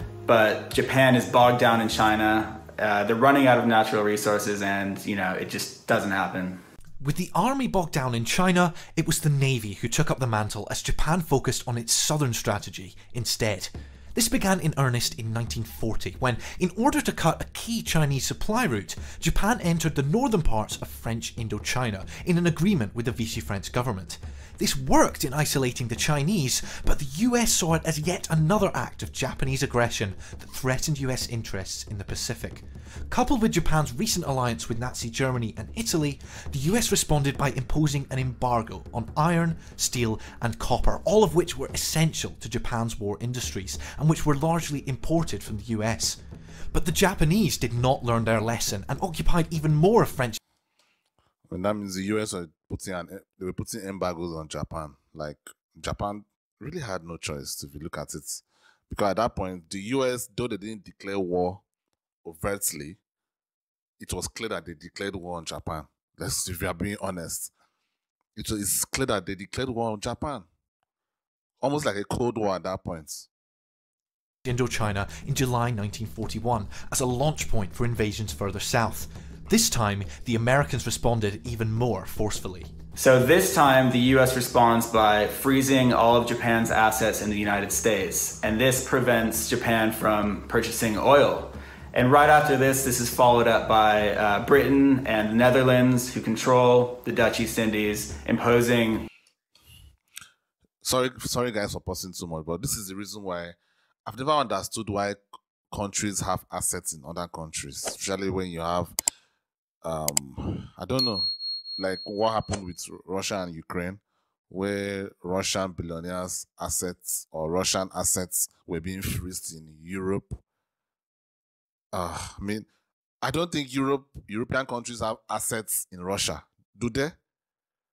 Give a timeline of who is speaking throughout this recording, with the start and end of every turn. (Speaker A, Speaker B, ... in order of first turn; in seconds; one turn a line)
Speaker A: 0.2-6.6
Speaker B: 7.0-46.2
Speaker B: 46.7-50.4
Speaker C: 51.5-61.6
Speaker C: 62.2-63.0
Speaker C: 64.0-67.5
Speaker C: 68.3-70.5
Speaker C: 71.6-73.3
Speaker B: 74.4-82.7
Speaker A: 83.0-99.1
Speaker C: 100.8-109.0
Speaker C: 109.8-120.4
Speaker C: 121.9-122.7
Speaker C: 123.2-127.2